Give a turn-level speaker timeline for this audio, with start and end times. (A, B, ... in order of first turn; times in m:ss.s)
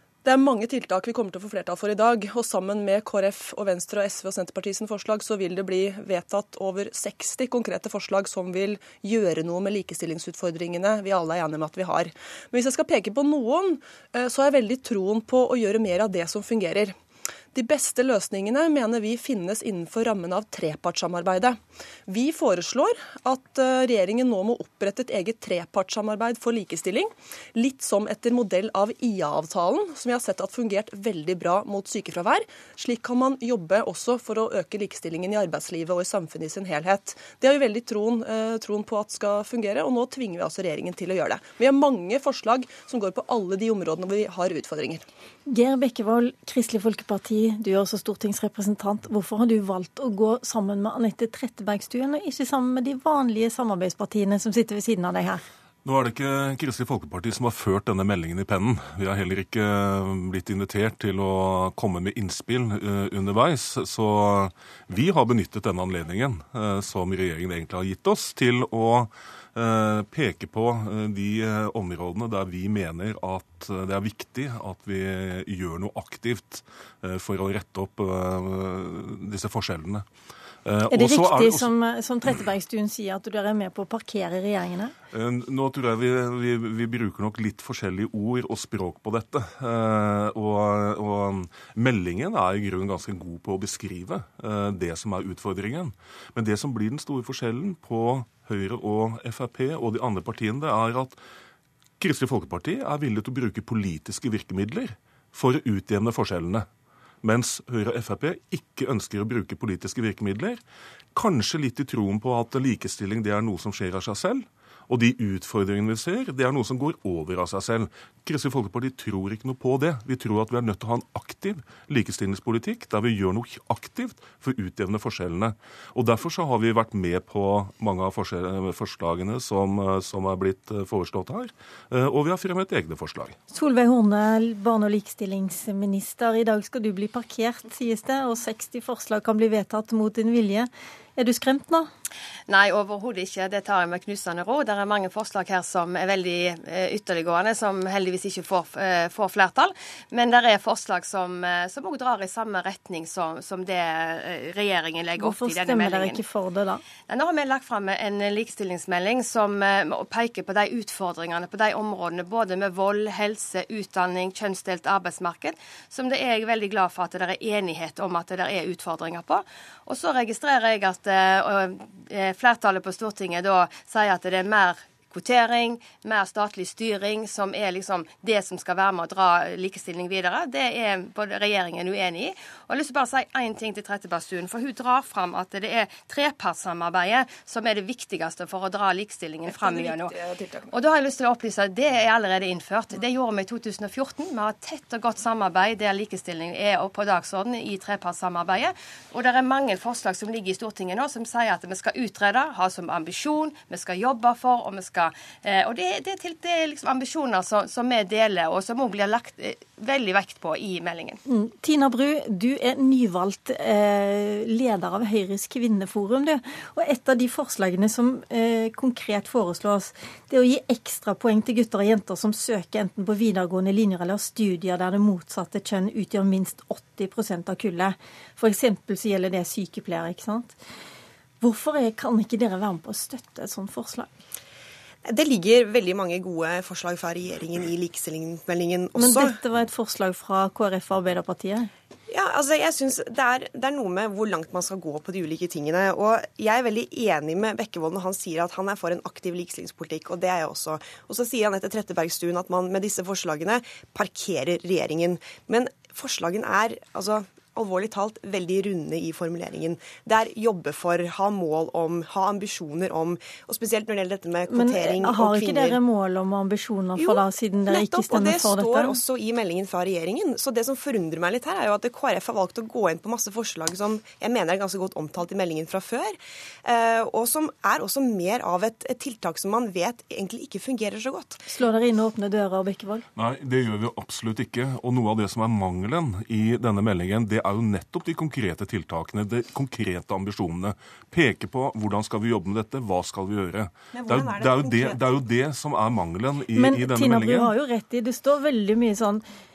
0:00.2-0:16.9 A
0:17.5-0:45.0 A
0:45.5-0:55.4 B
0:55.8-1:20.0 C
1:20.6-1:21.7 C
1:20.9-1:24.9 B
1:25.1-1:41.2 C
1:42.0-1:46.7 C
1:47.2-1:50.6 C
1:51.1-2:13.4 C
2:13.5-2:21.9 B
2:22.5-2:36.2 D
2:35.2-2:36.8 B
2:37.0-3:10.1 D
3:09.7-3:10.4 A
3:10.7-3:31.2 D
3:31.3-3:50.6 B
3:51.4-3:54.1 B
3:55.0-3:59.3 E
3:58.9-4:01.7 B
4:02.1-4:25.8 E
4:24.5-4:29.0 B
4:27.0-4:41.4 E
4:41.5-4:43.0 B
4:43.2-4:57.5 C
4:53.9-4:55.3 E
4:56.5-4:59.2 B